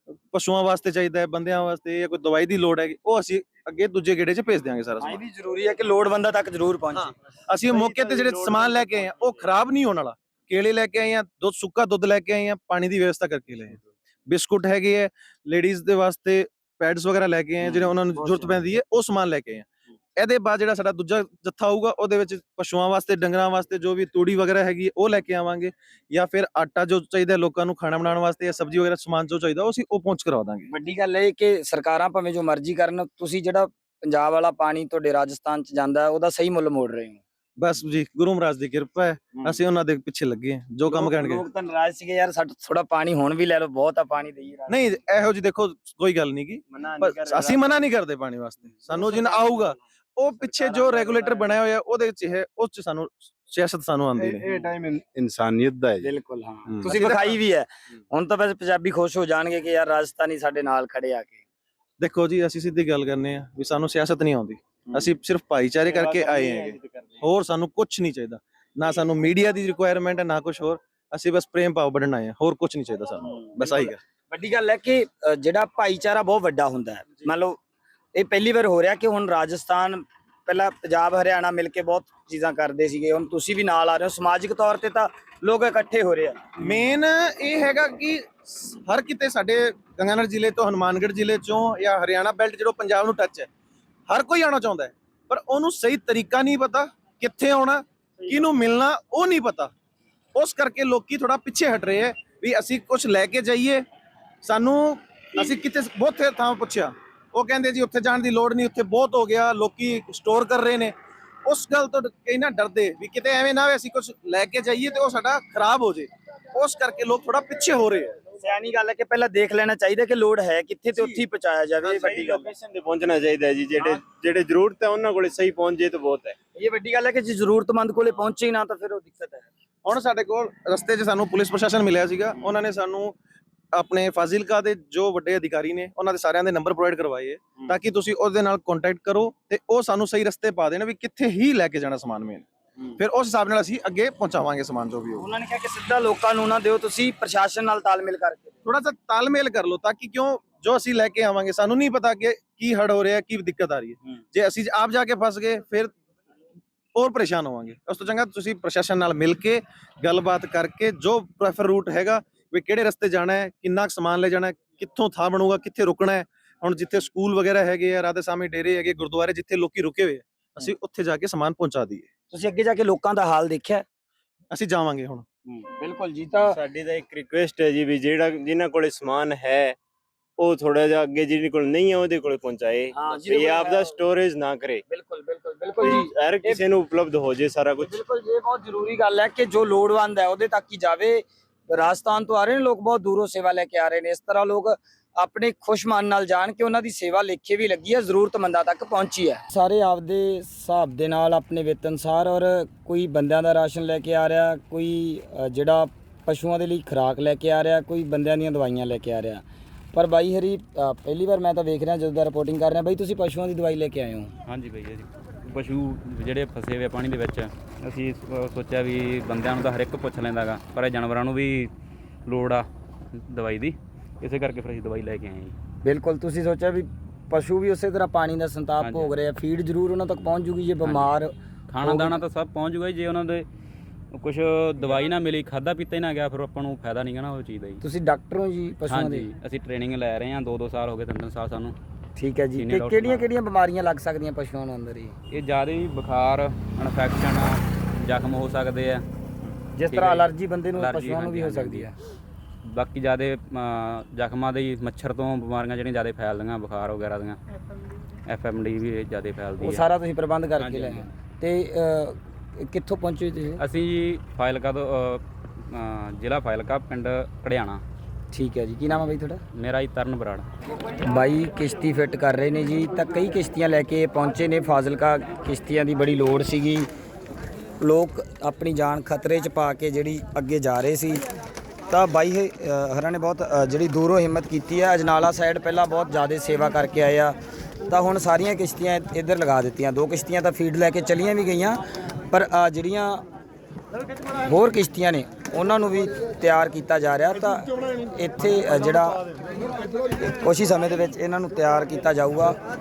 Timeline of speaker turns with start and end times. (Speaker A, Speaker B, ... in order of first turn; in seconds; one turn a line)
Speaker A: 0.3-5.2
Speaker B: 5.0-7.1
Speaker A: 7.0-30.7
Speaker C: 7.7-9.5
Speaker B: 30.7-37.2
Speaker A: 37.6-41.4
Speaker B: 40.9-44.9
Speaker A: 44.7-54.5
Speaker C: 46.7-47.8
Speaker C: 48.9-49.8
Speaker C: 50.4-51.6
Speaker D: 54.2-56.1
Speaker B: 56.0-61.4
Speaker D: 56.7-56.9
Speaker A: 56.9-57.4
Speaker A: 62.0-74.0
Speaker C: 65.8-67.3
Speaker B: 73.6-77.6
Speaker B: 78.2-86.5
Speaker A: 86.6-93.5
Speaker A: 94.1-99.7
Speaker A: 100.3-103.8
Speaker A: 104.4-111.0
Speaker A: 111.5-118.2
Speaker B: 118.4-122.5
Speaker A: 121.0-121.2
Speaker C: 121.8-126.4
Speaker B: 126.6-129.5
Speaker A: 129.8-133.2
Speaker A: 133.7-145.2
Speaker B: 145.2-148.5
Speaker A: 148.7-155.9
Speaker A: 156.9-172.1
Speaker B: 172.3-173.8
Speaker A: 174.5-175.2
Speaker B: 175.5-176.6
Speaker C: 176.5-179.8
Speaker C: 180.4-184.8
Speaker B: 182.9-184.0
Speaker B: 184.9-186.6
Speaker C: 185.8-188.0
Speaker B: 187.8-209.4
Speaker B: 209.9-214.3
Speaker E: 214.5-221.7
Speaker E: 222.3-222.7
Speaker E: 223.2-225.6
Speaker B: 225.8-232.2
Speaker E: 228.8-229.1
Speaker E: 230.8-231.1
Speaker E: 231.7-233.5
Speaker E: 234.1-237.8
Speaker B: 237.8-239.3
Speaker E: 238.9-241.8
Speaker B: 242.2-245.2
Speaker E: 242.6-243.3
Speaker E: 245.3-251.9
Speaker B: 249.8-251.9
Speaker E: 252.7-257.4
Speaker E: 258.3-259.9
Speaker B: 259.6-263.6
Speaker E: 260.6-261.1
Speaker E: 263.6-267.8
Speaker B: 268.3-269.4
Speaker E: 269.5-270.5
Speaker B: 271.1-276.9
Speaker B: 277.8-281.2
Speaker B: 281.9-287.4
Speaker B: 287.9-293.2
Speaker B: 294.4-299.2
Speaker B: 300.2-302.6